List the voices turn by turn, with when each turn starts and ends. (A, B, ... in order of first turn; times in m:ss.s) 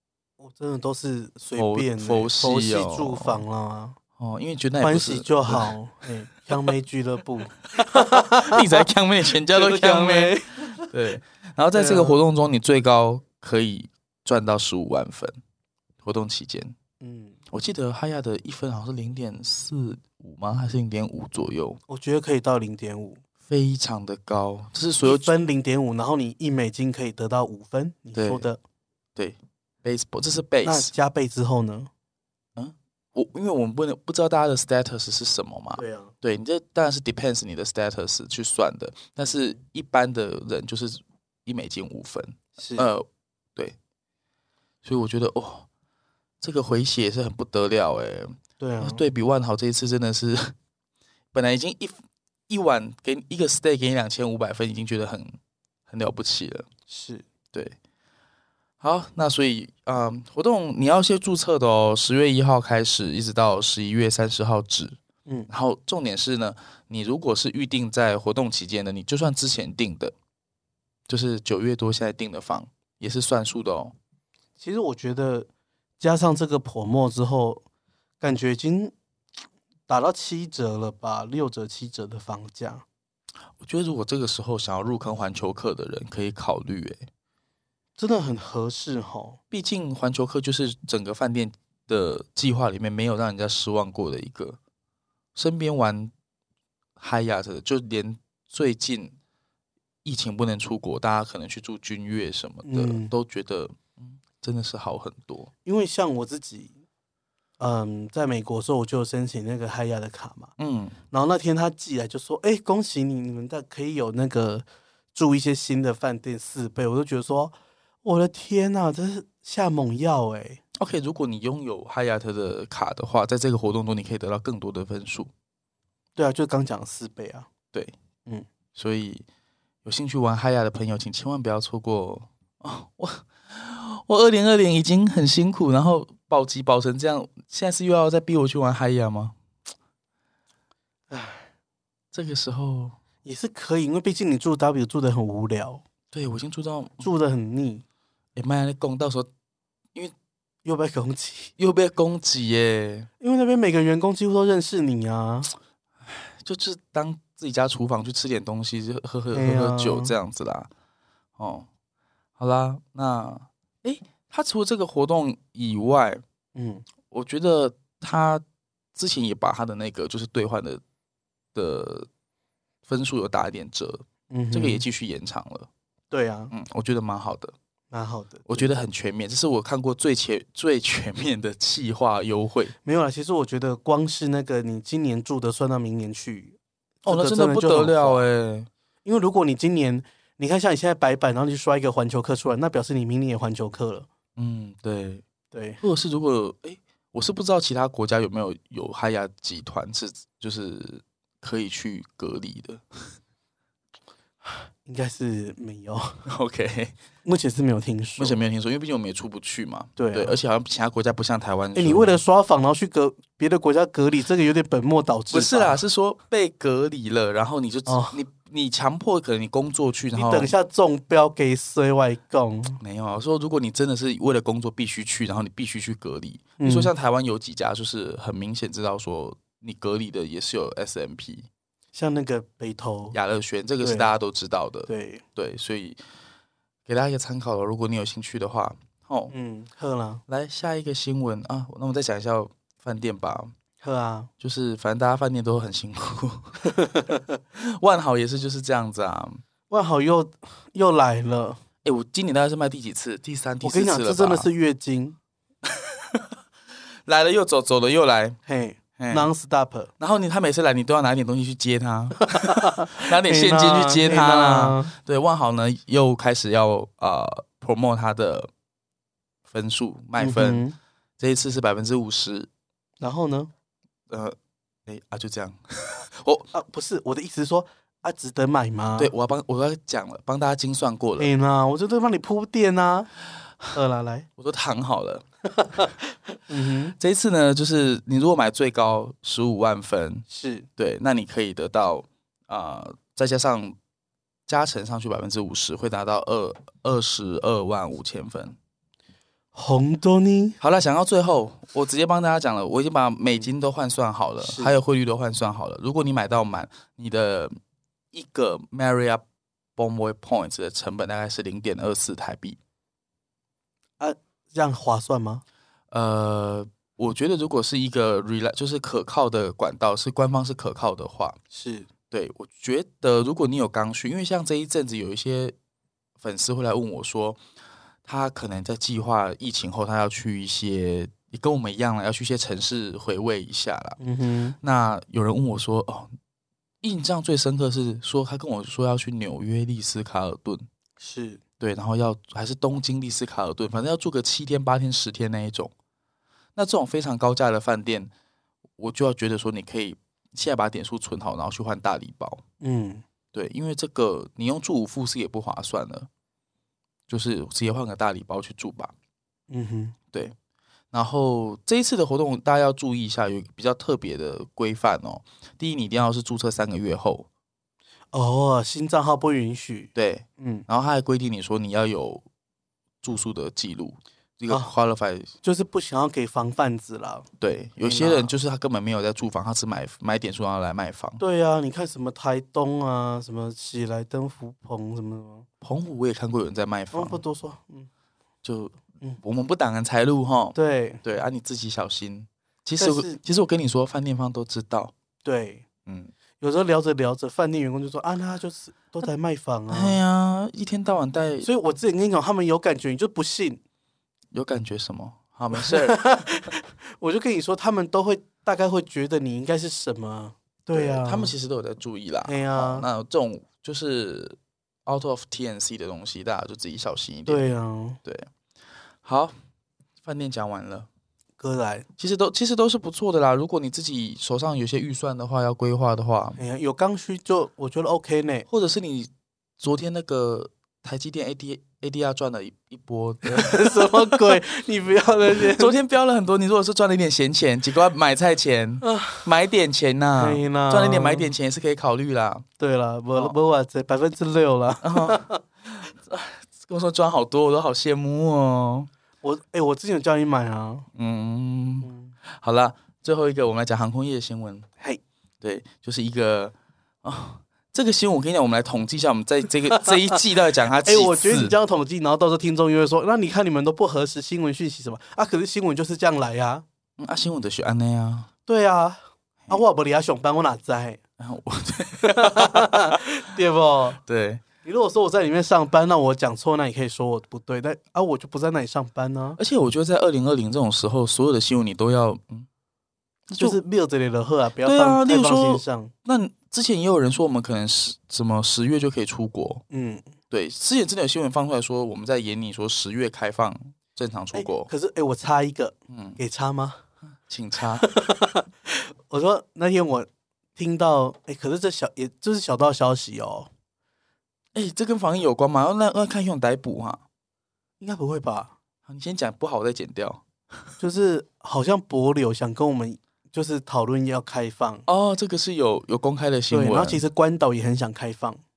0:00.4-0:04.0 A
0:01.6-0:03.4 B
0:04.2-0:05.7 B
0:04.8-0:08.8 A
0:07.8-0:15.4 B
0:09.5-0:10.9 A
0:11.7-0:12.2 A
0:16.0-0:16.7 B
0:17.0-0:17.4 A
0:17.5-0:21.8 B
0:21.9-0:23.2 A
0:23.4-0:25.3 B
0:25.0-0:28.6 A
0:28.1-0:28.4 B
0:29.2-0:30.9 B
0:30.6-0:31.9 A
0:32.6-0:43.8 B
0:35.8-0:36.1 A
0:42.6-0:42.9 A
0:44.8-0:45.7 B
0:46.4-0:50.5 B
0:48.6-0:49.0 A
0:51.3-0:52.0 B
0:52.5-0:55.4 B
0:55.9-0:56.7 B
0:56.9-0:57.2 A
0:58.8-1:05.0 B
1:05.5-1:10.1 B
1:11.1-1:13.9 B
1:14.6-1:15.5 A
1:16.0-1:17.6 A
1:18.2-1:18.9 A
1:19.9-1:22.8 A
1:23.6-1:27.0 B
1:28.0-1:29.4 A
1:29.5-1:34.6 B
1:35.3-1:36.1 B
1:37.0-1:39.1 B
1:40.0-1:45.5 B
1:42.6-1:43.1 A
1:45.6-1:46.7 A
1:47.6-1:50.5 A
1:50.6-1:51.0 B
1:51.1-2:00.6 A
2:00.8-2:05.3 B
2:06.2-2:07.5 A
2:08.7-2:09.2 B
2:09.8-2:19.3 B
2:21.1-2:21.5 A
2:22.1-2:23.0 B
2:23.2-2:25.8 A
2:26.1-2:27.1 B
2:27.0-2:27.8 A
2:28.3-2:29.3 B
2:30.6-2:31.5 A
2:31.6-2:33.1 B
2:33.2-2:35.5 A
2:36.0-2:40.7 B
2:39.3-2:40.1 A
2:41.4-2:41.7 B
2:42.4-2:46.2 B
2:46.5-2:46.8 A
2:47.1-2:48.4 B
2:48.9-2:50.8 B
2:51.5-2:52.1 B
2:52.9-2:55.7 B
2:54.3-2:54.8 A
2:56.1-2:56.5 A
2:56.5-2:57.5 B
2:57.9-2:58.8 A
2:58.5-3:02.7 B
3:02.8-3:08.2 A
3:07.0-3:08.7 B
3:09.0-3:14.1 A
3:14.4-3:15.2 B
3:15.5-3:15.8 A
3:15.8-3:23.1 B
3:24.4-3:26.2 A
3:26.2-3:26.9 B
3:27.2-3:28.4 A
3:28.2-3:32.2 B
3:30.0-3:30.4 A
3:31.7-3:35.8 A
3:35.3-3:40.5 B
3:37.9-3:38.2 A
3:40.1-3:42.8 A
3:42.8-3:51.5 B
3:46.6-3:46.9 A
3:51.9-3:53.2 A
3:53.1-3:56.0 B
3:53.8-3:54.1 A
3:54.9-3:55.2 A
3:56.9-3:59.3 B
3:59.3-4:00.2 A
4:00.3-4:03.5 B
4:03.8-4:04.3 A
4:04.4-4:06.6 B
4:06.6-4:07.4 A
4:07.5-4:09.4 B
4:09.7-4:11.6 A
4:11.8-4:14.5 B
4:13.6-4:15.2 A
4:15.6-4:16.4 B
4:17.0-4:18.4 B
4:18.4-4:19.9 A
4:19.0-4:19.3 B
4:20.0-4:28.5 B
4:22.3-4:24.9 A
4:29.5-4:30.6 B
4:30.2-4:30.8 A
4:31.2-4:32.5 B
4:33.0-4:33.5 A
4:34.1-4:36.5 B
4:36.5-4:39.1 A
4:39.0-4:41.3 B
4:41.2-4:43.1 A
4:43.7-4:44.3 A
4:44.4-4:45.2 B
4:45.6-4:45.9 A
4:46.5-4:47.0 A
4:47.0-4:50.2 B
4:50.3-4:50.7 A
4:50.8-4:53.7 B
4:54.5-4:58.6 B
4:59.5-5:00.6 A
5:00.6-5:07.5 B
5:04.4-5:04.8 A
5:08.1-5:09.2 B
5:09.8-5:12.6 B
5:14.0-5:15.4 A
5:15.9-5:21.4 B
5:21.5-5:21.9 A
5:22.1-5:25.5 B
5:26.2-5:27.4 B
5:28.0-5:34.0 B
5:34.0-5:34.6 A
5:34.6-5:36.1 B
5:36.8-5:40.6 B
5:41.0-5:41.4 A
5:41.6-5:45.7 B
5:46.6-5:48.1 B
5:48.8-5:52.4 B
5:52.6-5:53.0 A
5:53.3-5:56.1 B
5:57.1-5:58.9 B
5:59.5-6:00.0 A
6:00.9-6:07.3 B
6:08.1-6:10.6 A
6:09.9-6:12.2 B
6:13.0-6:15.3 B
6:15.4-6:17.3 A
6:17.4-6:21.2 B
6:17.8-6:18.3 A
6:21.2-6:25.5 A
6:25.6-6:27.2 B
6:26.9-6:27.9 A
6:28.4-6:34.9 B
6:30.5-6:31.0 A
6:32.8-6:33.2 A
6:35.2-6:35.6 A
6:35.8-6:36.1 B
6:36.4-6:40.0 A
6:39.7-6:41.5 B
6:41.4-6:43.6 A
6:44.3-6:46.2 B
6:45.5-6:51.3 A
6:50.7-6:57.5 B
6:52.2-6:52.9 A
6:57.2-6:58.0 A
6:58.0-6:58.3 B
6:59.0-6:59.3 B
7:00.0-7:00.9 B
7:01.4-7:01.9 A
7:02.0-7:06.4 B
7:06.4-7:08.5 A
7:08.5-7:14.4 B
7:13.2-7:15.8 A
7:15.3-7:22.4 B
7:18.8-7:19.3 A
7:20.2-7:21.3 A
7:22.6-7:25.4 A
7:24.8-7:28.9 B
7:29.2-7:30.9 A
7:30.9-7:34.7 B
7:31.8-7:32.1 A
7:35.4-7:41.6 B
7:40.8-7:46.6 A
7:47.0-7:48.3 B
7:48.4-7:51.0 A
7:51.2-7:53.0 B
7:52.0-7:54.0 A
7:54.0-7:54.4 B
7:54.6-7:59.4 A
7:59.4-8:02.5 B
8:03.3-8:03.6 B
8:03.4-8:05.9 A
8:04.6-8:09.6 B
8:09.7-8:10.1 A
8:10.3-8:14.7 B
8:14.3-8:16.8 A
8:15.9-8:16.2 B
8:17.3-8:17.9 B
8:17.8-8:23.5 A
8:24.5-8:27.0 B
8:27.8-8:28.5 A
8:28.8-8:30.2 B
8:30.8-8:34.8 A
8:34.9-8:37.0 B
8:36.5-8:38.4 A